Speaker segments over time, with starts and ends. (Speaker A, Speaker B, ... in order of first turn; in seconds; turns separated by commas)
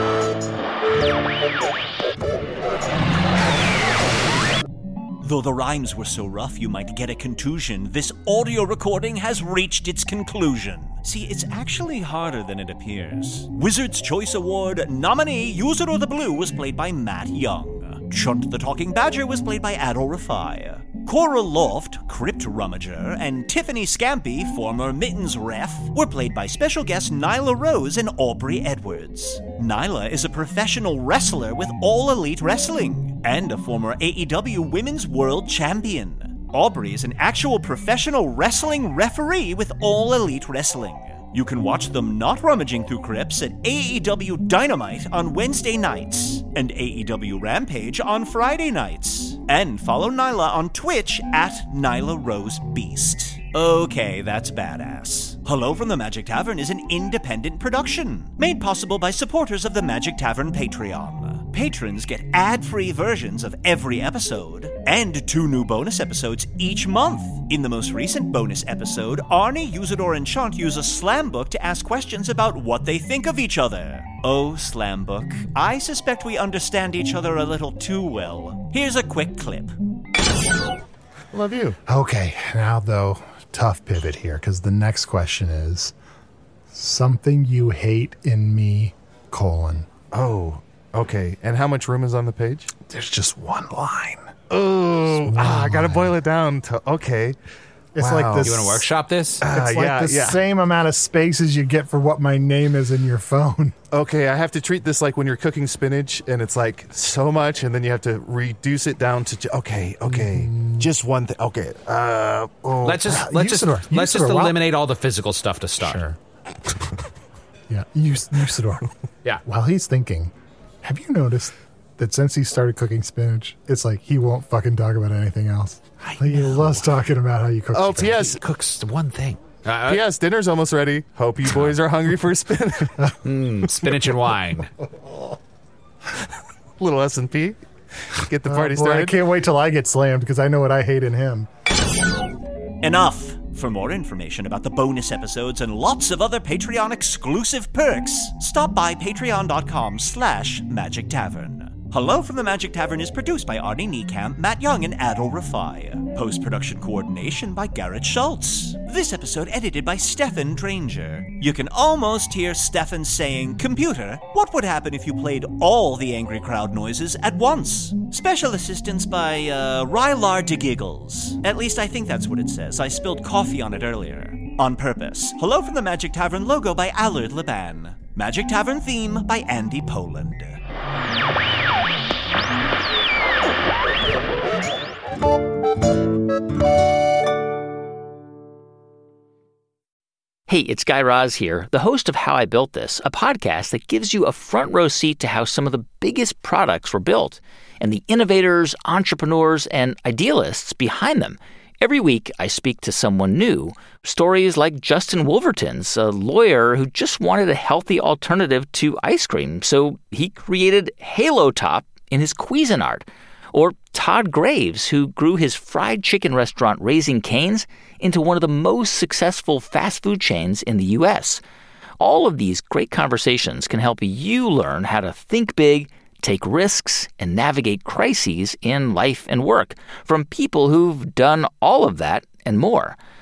Speaker A: 5.2-79.7, Speaker B: 81.3-81.8, Speaker C: 81.9-85.9, Speaker C: 86.7-89.9, Speaker B: 90.1-92.7, Speaker C: 92.9-94.3, Speaker B: 94.5-97.4, Speaker C: 95.2-96.2, Speaker C: 98.0-98.8, Speaker B: 98.0-98.8, Speaker D: 98.4-99.4, Speaker B: 99.4-100.4, Speaker C: 99.4-103.8, Speaker B: 103.9-113.0, Speaker C: 110.1-110.9, Speaker D: 112.8-116.1, Speaker C: 113.0-114.6, Speaker C: 115.8-116.2, Speaker C: 117.7-118.9, Speaker C: 119.5-128.3, Speaker D: 126.0-126.9, Speaker B: 127.7-128.4, Speaker D: 128.1-130.1, Speaker B: 129.9-133.1, Speaker D: 131.5-131.8, Speaker D: 133.2-134.7, Speaker B: 136.8-137.6, Speaker B: 138.1-139.2, Speaker C: 138.4-141.5, Speaker A: 142.8-180.6, Speaker E: 190.5-221.4, Speaker E: 222.0-233.0